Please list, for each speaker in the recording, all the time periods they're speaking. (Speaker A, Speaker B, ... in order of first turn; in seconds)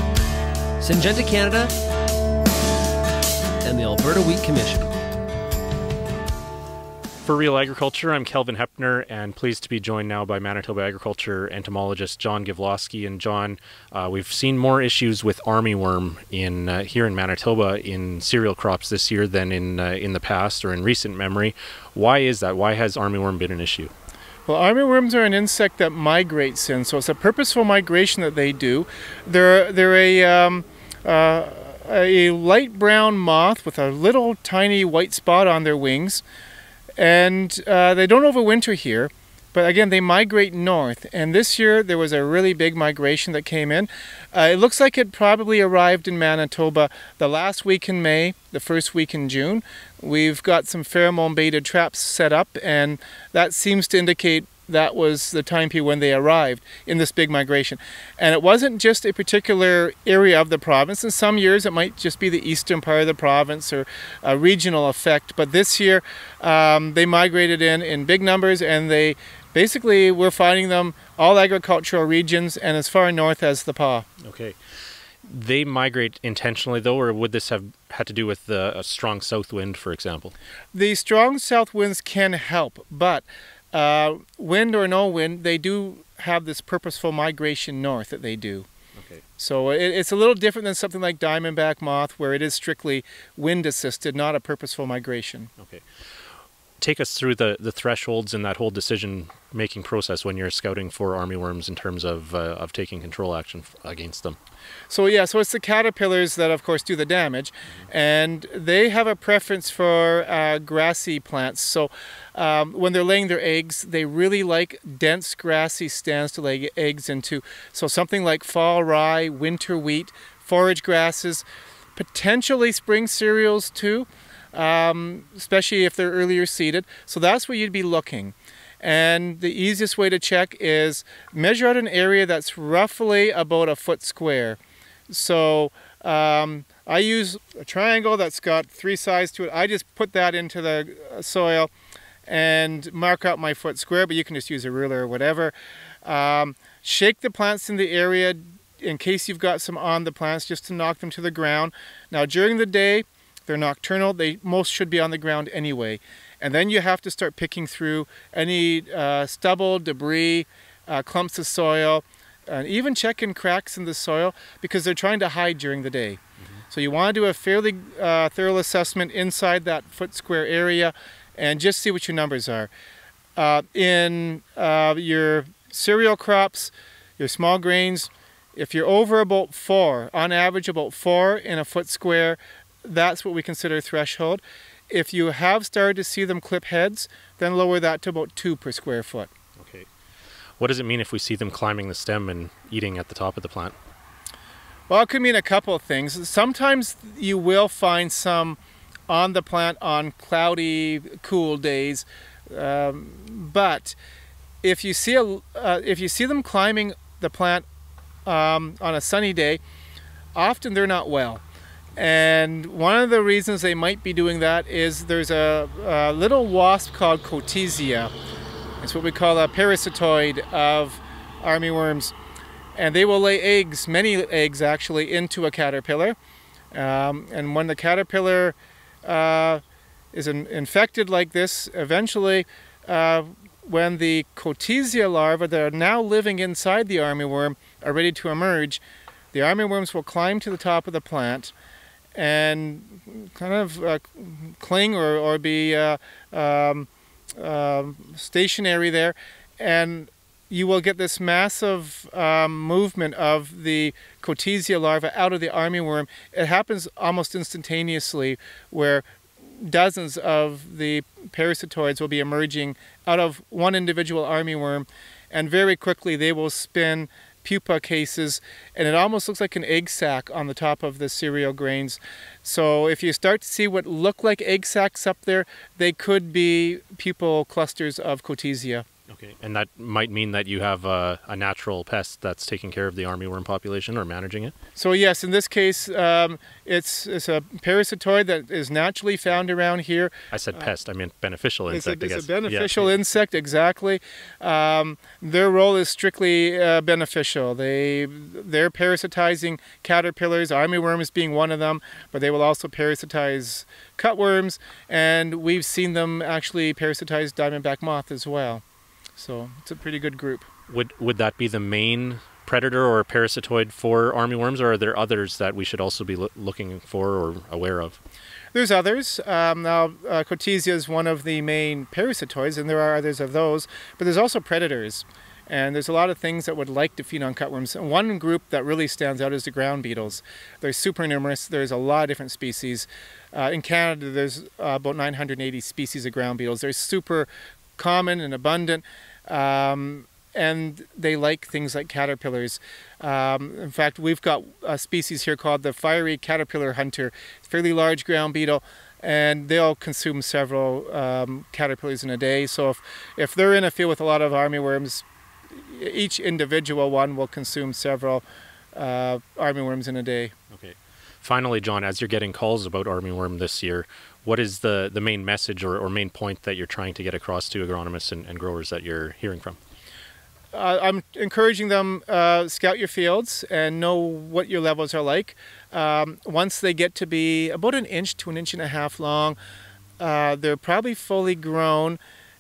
Speaker A: 0.8-1.7, 3.6-4.9
Speaker B: 7.2-23.9, 74.2-74.6, 75.3-80.3, 89.0-89.2, 95.6-95.8, 96.8-104.4, 189.6-189.9, 190.6-193.8, 279.1-284.5, 290.3-292.9, 310.7-318.0, 360.5-369.6
Speaker C: 24.5-36.2, 37.0-74.1, 80.7-88.7, 89.4-95.5, 104.9-141.7, 142.3-172.7, 173.4-189.3, 194.9-204.0, 204.6-207.7, 208.3-209.6, 210.3-211.4, 212.0-218.1, 218.8-222.2, 222.8-226.2, 226.7-229.6, 230.1-238.8, 239.3-241.5, 242.2-278.9, 284.8-290.1, 291.7-308.6, 309.2-310.5, 318.5-360.3, 370.5-379.4, 380.0-382.0